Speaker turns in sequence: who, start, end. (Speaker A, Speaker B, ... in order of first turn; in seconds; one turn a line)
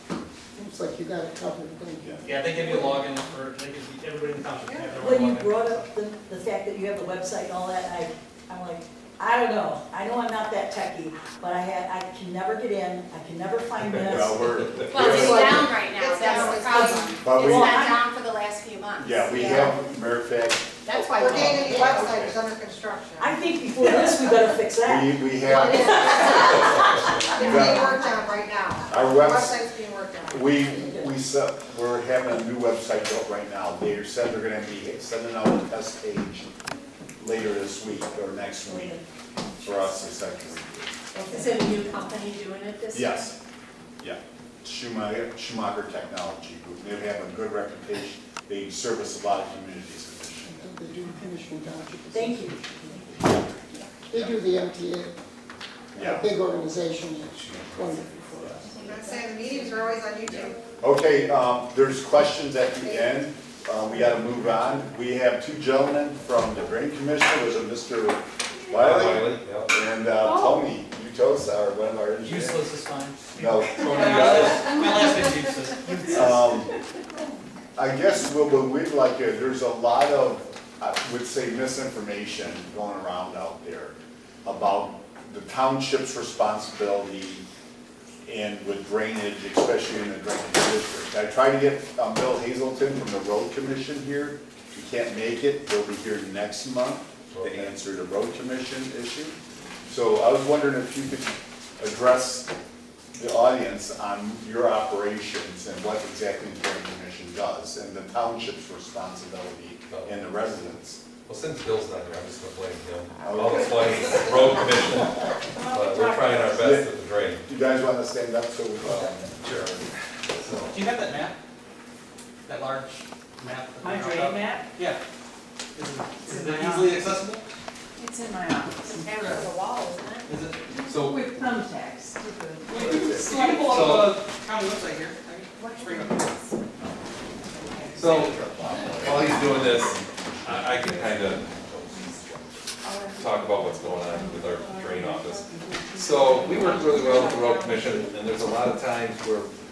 Speaker A: 0.6-3.0
Speaker B: 2.2-5.9
Speaker C: 5.0-14.8
Speaker D: 13.8-14.1
Speaker E: 14.0-15.9
Speaker F: 14.9-19.8
Speaker G: 15.0-17.2
Speaker C: 16.3-18.0
Speaker E: 17.2-17.9
Speaker E: 19.0-22.4
Speaker F: 20.8-22.1
Speaker G: 21.2-23.4
Speaker C: 23.2-26.8
Speaker E: 24.8-27.9
Speaker G: 25.5-30.6
Speaker F: 25.8-26.6
Speaker C: 27.4-28.0
Speaker E: 28.9-29.6
Speaker E: 30.3-36.5
Speaker C: 30.8-31.1
Speaker E: 37.2-39.0
Speaker C: 38.7-39.0
Speaker E: 39.6-41.3
Speaker C: 41.2-41.6
Speaker H: 41.6-43.2
Speaker E: 42.9-43.4
Speaker E: 44.0-50.7
Speaker A: 50.5-53.4
Speaker C: 52.1-52.6
Speaker E: 53.1-53.5
Speaker A: 54.1-55.1
Speaker E: 55.9-56.3
Speaker A: 56.0-58.8
Speaker D: 57.3-58.5
Speaker G: 58.8-60.6
Speaker E: 60.3-72.7
Speaker G: 62.8-63.2
Speaker D: 68.7-69.7
Speaker H: 70.2-70.6
Speaker B: 72.2-76.5
Speaker E: 73.3-74.8
Speaker D: 73.8-74.8
Speaker E: 76.0-76.7
Speaker E: 77.8-87.5
Speaker E: 88.2-102.5
Speaker D: 97.3-97.8
Speaker E: 103.1-111.0
Speaker D: 109.9-110.2
Speaker D: 111.2-117.5
Speaker E: 113.2-114.2
Speaker H: 115.5-116.8
Speaker E: 116.5-119.8
Speaker D: 118.8-120.9
Speaker B: 120.7-121.3
Speaker B: 122.5-125.0
Speaker H: 123.8-124.7
Speaker B: 125.8-127.4
Speaker H: 126.2-127.4
Speaker H: 128.0-129.5
Speaker F: 128.8-130.2
Speaker B: 129.1-129.5
Speaker B: 130.3-130.6
Speaker H: 130.8-133.6
Speaker D: 130.8-131.3
Speaker B: 132.7-136.4
Speaker E: 132.8-133.4
Speaker D: 133.5-134.2
Speaker H: 137.7-138.0
Speaker D: 137.9-138.4
Speaker E: 138.0-140.3
Speaker H: 138.7-139.0
Speaker D: 139.0-142.5
Speaker H: 142.8-147.4
Speaker D: 143.1-149.5